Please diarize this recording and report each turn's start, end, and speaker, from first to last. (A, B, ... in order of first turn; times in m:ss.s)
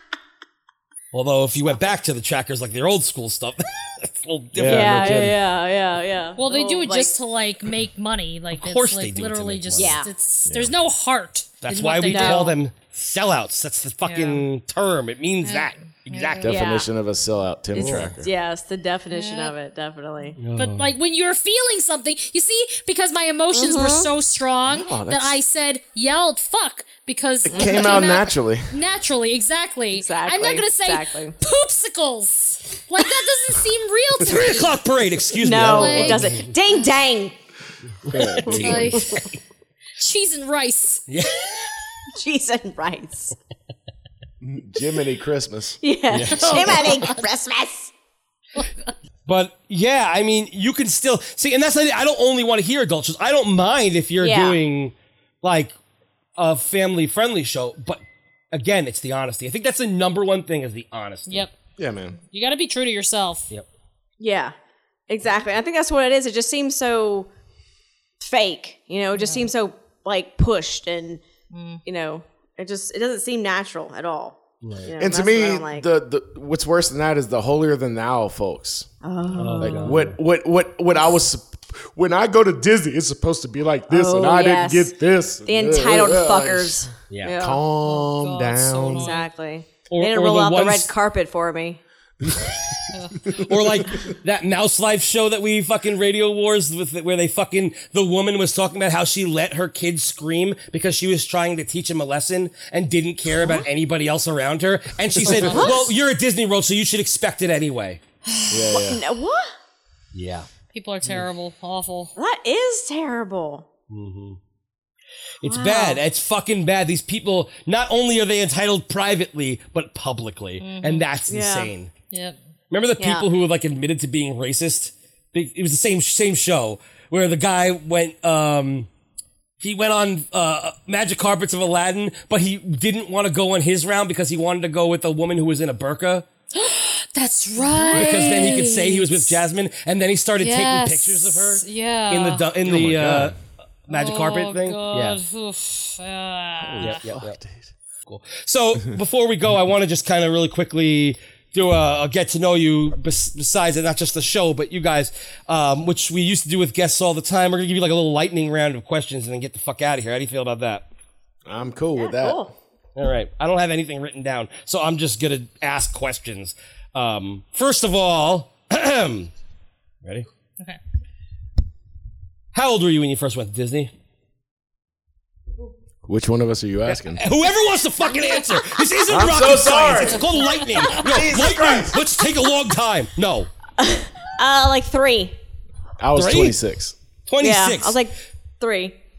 0:01.1-0:05.3 A
0:04.5-0:05.4 B
0:04.6-0:07.2 C
0:06.4-0:12.6 D
0:08.5-0:10.0 A
0:09.8-0:10.1 C
0:10.5-0:10.8 B
0:11.6-0:16.5 A
0:12.1-0:12.5 C
0:14.0-0:14.4 D
0:15.4-0:16.5 D
0:16.4-0:18.3 B
0:16.5-0:16.9 C
0:17.8-0:20.4 C
0:17.8-0:18.1 A
0:19.1-0:19.5 D
0:20.4-0:20.9 A
0:20.6-0:34.8 D
0:23.5-0:24.1 C
0:24.7-0:25.4 B
0:27.4-0:28.7 B
0:27.5-0:28.0 C
0:29.9-0:31.4 C
0:34.2-0:36.4 A
0:35.4-0:37.4 C
0:35.5-0:36.4 D
0:38.1-0:39.0 B
0:38.1-0:38.8 A
0:38.5-0:39.2 D
0:40.0-0:41.0 D
0:41.1-0:41.5 A
0:42.2-0:43.3 C
0:44.4-0:45.8 B
0:45.8-0:47.9 C
0:46.1-0:47.0 A
0:46.3-0:47.2 D
0:48.6-0:48.9 D
0:49.3-0:55.7 A
0:54.2-0:54.6 C
0:56.4-0:58.0 A
0:58.5-1:01.5 A
1:01.8-1:02.2 B
1:02.3-1:03.5 D
1:04.2-1:04.5 C
1:05.1-1:07.3 C
1:08.2-1:11.2 C
1:09.2-1:09.5 D
1:11.5-1:11.8 D
1:11.8-1:15.9 C
1:14.6-1:14.9 A
1:15.0-1:18.9 B
1:19.0-1:20.0 C
1:19.4-1:20.2 A
1:19.6-1:29.1 B
1:23.9-1:24.9 C
1:25.5-1:27.6 C
1:27.1-1:27.4 A
1:27.9-1:29.3 D
1:29.0-1:31.8 C
1:29.9-1:30.9 A
1:32.2-1:32.5 B
1:32.9-1:33.3 D
1:33.3-1:48.0 A
1:45.2-1:45.9 D
1:45.5-1:45.9 C
1:48.3-1:48.7 D
1:48.5-1:49.0 B
1:48.7-1:49.5 C
1:50.1-1:50.5 A
1:50.7-1:52.1 D
1:52.2-1:53.7 C
1:53.9-1:54.4 A
1:55.4-2:01.9 A
1:55.4-1:56.0 C
2:00.6-2:01.1 D
2:01.3-2:01.7 C
2:02.1-2:02.4 D
2:02.7-2:08.9 A
2:03.0-2:03.3 C
2:09.6-2:16.3 A
2:16.5-2:19.3 D
2:17.8-2:25.2 A
2:20.4-2:22.5 D
2:22.6-2:23.4 B
2:23.9-2:27.0 D
2:26.6-2:27.7 B
2:26.8-2:27.4 A
2:28.1-2:40.9 A
2:41.5-2:42.5 B
2:42.0-2:42.5 C
2:43.0-2:49.3 A
2:52.5-2:53.9 A
2:56.1-2:57.2 B
2:56.9-3:03.5 A
2:58.1-2:58.4 D
2:59.1-3:00.3 B
3:00.1-3:01.0 D
3:00.8-3:02.0 B
3:03.8-3:05.4 C
3:06.0-3:07.0 B
3:06.2-3:06.6 A
3:07.3-3:08.0 A
3:07.4-3:09.0 C